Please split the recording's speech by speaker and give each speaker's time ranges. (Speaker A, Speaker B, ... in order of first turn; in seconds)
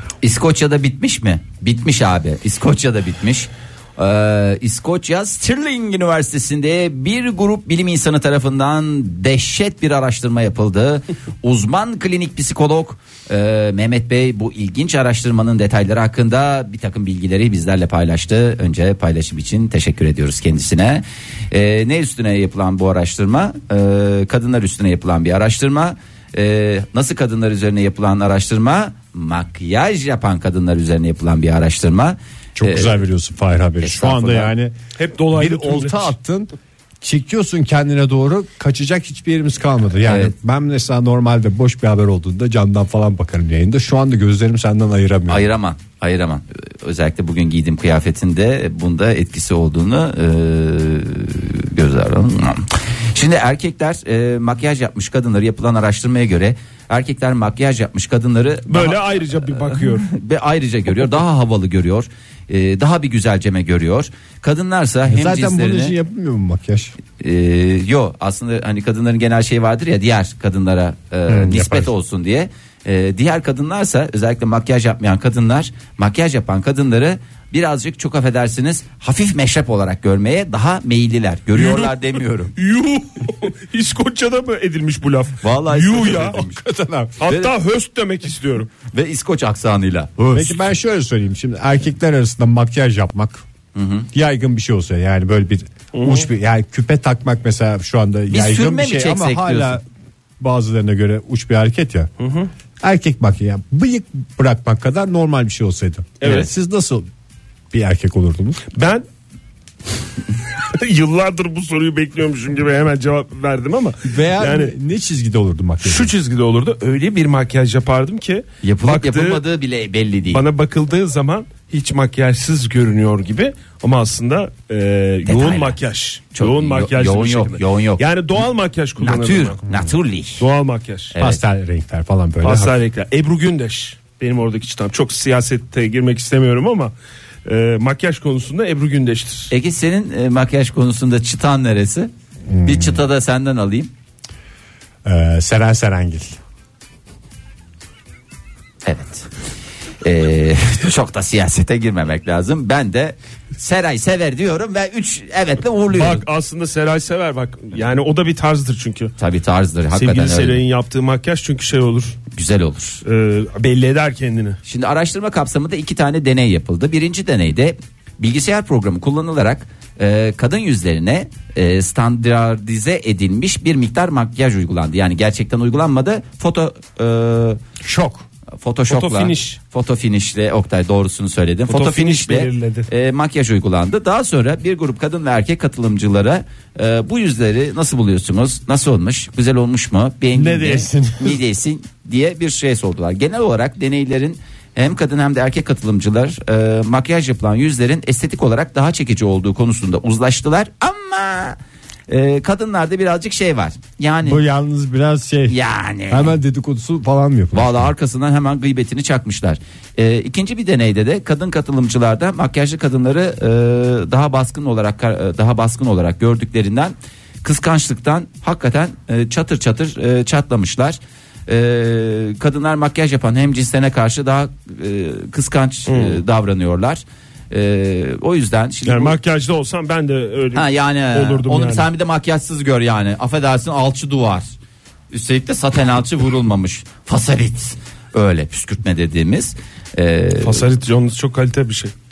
Speaker A: 0.2-33.0, 33.8-34.5, 40.0-40.3, 45.3-66.0, 67.2-82.5, 85.4-86.7, 87.2-87.5, 88.9-90.7, 93.8-94.1, 98.3-99.8, 118.6-120.5, 125.3-125.8, 126.3-128.1, 129.0-130.4, 131.1-131.4, 139.5-142.1, 142.6-143.9, 148.8-149.3, 150.0-156.2, 159.2-160.6, 162.3-163.0, 164.6-177.6, 178.6-201.6, 202.1-204.4, 205.5-206.4, 207.5-229.2, 230.5-234.4, 235.1-240.7
Speaker B: 32.6-34.8, 35.3-36.5, 37.0-45.5, 65.1-66.9, 71.3-71.9, 86.2-87.2, 90.3-93.4, 94.1-99.8, 100.4-102.1, 102.8-107.1, 107.7-108.6, 114.0-116.1, 131.2-132.8, 142.5-143.0, 145.1-146.4, 177.8-178.2, 190.3-191.4, 204.2-205.6, 206.1-207.9
Speaker C: 35.0-36.1, 58.7-60.1, 81.5-86.4, 87.2-88.7, 95.9-96.3, 102.2-102.5, 106.2-106.5, 108.7-109.0, 110.6-114.7, 115.8-119.4, 120.3-129.6, 130.4-131.2, 132.4-136.9, 137.5-139.5, 155.9-159.1, 159.9-162.2, 163.0-164.6, 178.9-179.6, 181.7-182.9, 225.9-226.2, 228.8-231.9, 240.4-241.9